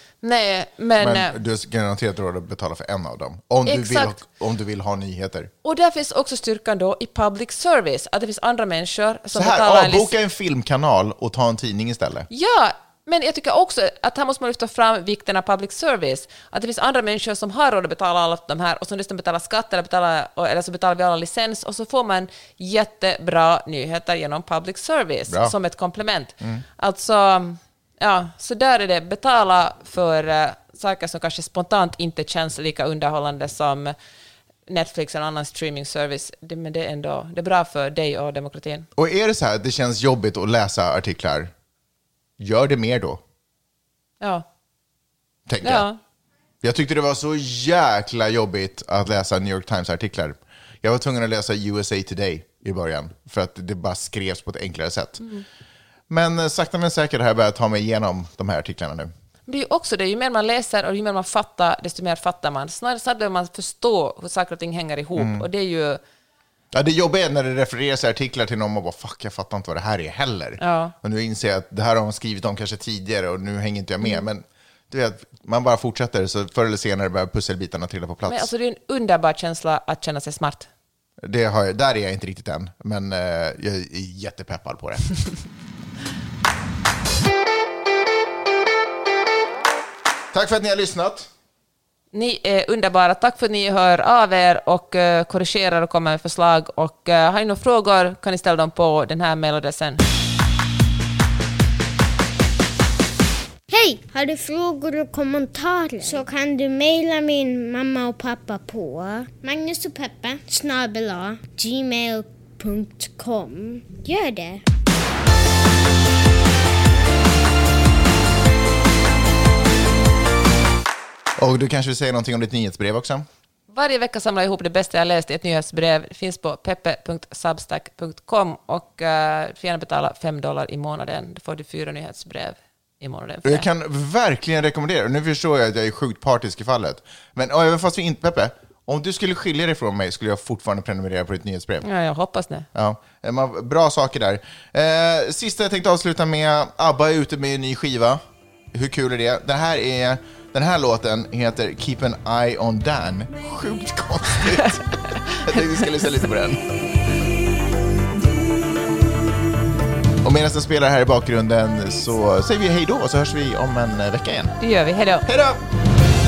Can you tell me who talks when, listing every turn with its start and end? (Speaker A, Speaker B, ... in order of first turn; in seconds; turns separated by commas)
Speaker A: 0.2-1.4, Speaker B: 1.0-5.5, Speaker A: 3.7-4.2, Speaker A: 5.6-10.1, Speaker B: 9.3-12.3, Speaker A: 12.3-34.0, Speaker A: 34.7-38.9, Speaker B: 39.0-41.5, Speaker B: 42.4-43.2, Speaker B: 45.5-45.9, Speaker A: 45.6-46.0, Speaker B: 46.6-55.2, Speaker B: 56.1-59.1, Speaker A: 59.5-66.0, Speaker B: 65.2-65.5, Speaker B: 66.7-78.5, Speaker A: 70.6-70.9, Speaker A: 78.3-80.7, Speaker B: 81.2-85.1, Speaker B: 90.3-91.3, Speaker A: 92.1-100.0, Speaker C: 103.7-114.6, Speaker B: 121.4-123.3, Speaker A: 123.7-133.7, Speaker B: 133.4-141.8, Speaker A: 141.8-142.7, Speaker B: 142.7-156.8, Speaker B: 160.2-164.6, Speaker A: 164.6-165.3, Speaker B: 165.3-165.6